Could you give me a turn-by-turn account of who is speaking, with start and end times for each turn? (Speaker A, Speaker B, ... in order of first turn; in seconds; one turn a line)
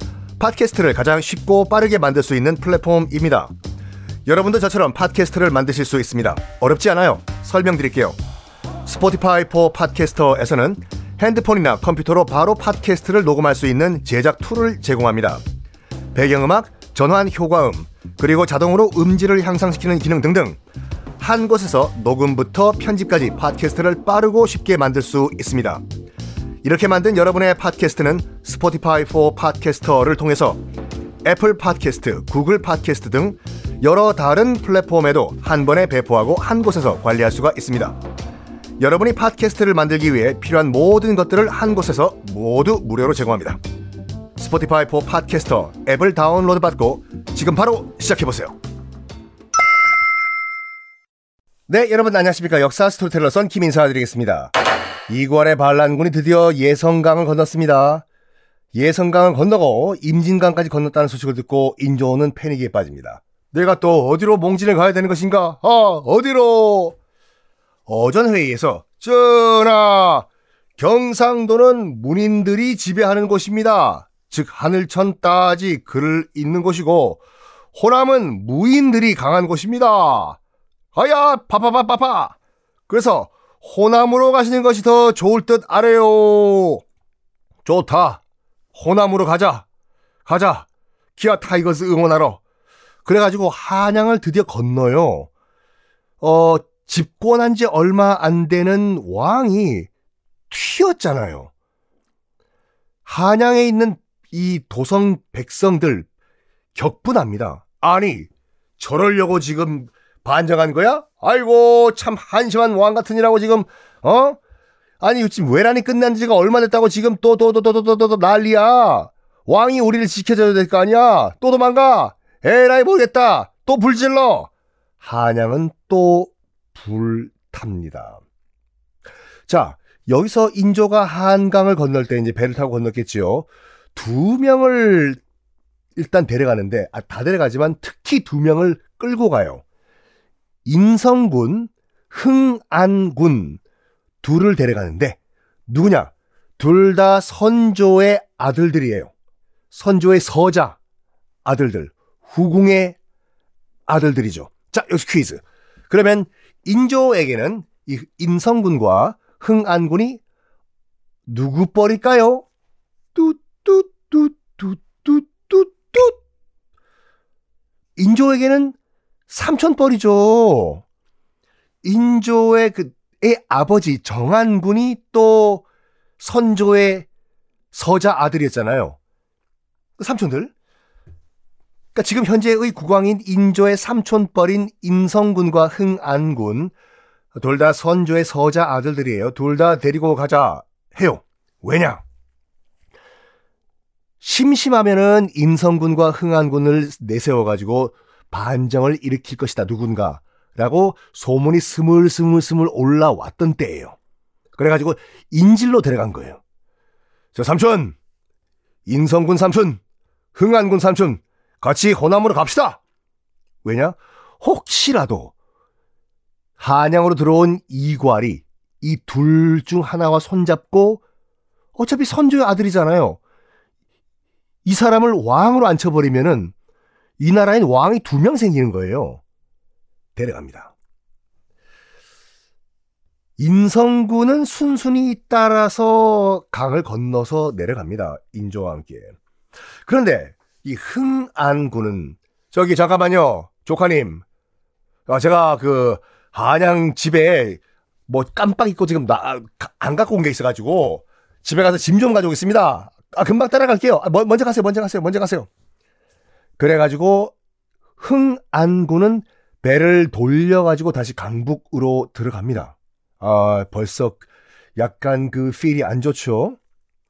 Speaker A: 0.4-3.5
Speaker A: 4.2-8.2
Speaker A: 8.8-15.4
Speaker A: 16.1-20.6
Speaker A: 21.2-25.8
Speaker A: 26.6-30.6
Speaker A: 31.2-38.0
Speaker A: 38.8-43.6
Speaker A: 44.4-48.5
Speaker A: 51.7-54.5
Speaker A: 55.1-58.0
Speaker A: 58.7-67.0
Speaker A: 67.9-77.2
Speaker A: 77.7-80.4
Speaker A: 80.9-82.3
Speaker A: 82.9-86.8
Speaker A: 87.6-88.2
Speaker A: 88.7-89.7
Speaker A: 90.2-92.4
Speaker A: 93.0-95.3
Speaker A: 96.2-99.9
Speaker A: 100.5-101.5
Speaker A: 103.0-106.1
Speaker A: 106.7-114.4
Speaker A: 115.0-124.5
Speaker A: 125.0-128.2
Speaker A: 129.5-135.2
Speaker A: 135.9-139.6
Speaker A: 140.6-143.6
Speaker A: 144.2-149.1
Speaker A: 149.7-150.8
Speaker A: 151.4-153.0
Speaker A: 153.9-160.2
Speaker A: 161.3-162.4
Speaker A: 163.1-166.2
Speaker A: 168.0-168.8
Speaker A: 169.3-170.8
Speaker A: 171.8-175.6
Speaker A: 176.2-177.1
Speaker A: 177.7-179.0
Speaker A: 180.0-180.5
Speaker A: 181.9-186.7
Speaker A: 187.3-192.0
Speaker A: 194.2-204.0
Speaker A: 204.6-206.4
Speaker A: 207.3-207.9
Speaker A: 208.8-209.8
Speaker A: 210.3-212.8
Speaker A: 213.6-215.3
Speaker A: 216.6-221.0
Speaker A: 221.8-223.2
Speaker A: 224.6-226.5
Speaker A: 227.2-229.2
Speaker A: 230.2-230.7
Speaker A: 233.4-239.1
Speaker A: 239.8-244.2
Speaker A: 245.1-255.5
Speaker A: 256.6-257.3
Speaker A: 258.0-264.2
Speaker A: 264.8-266.6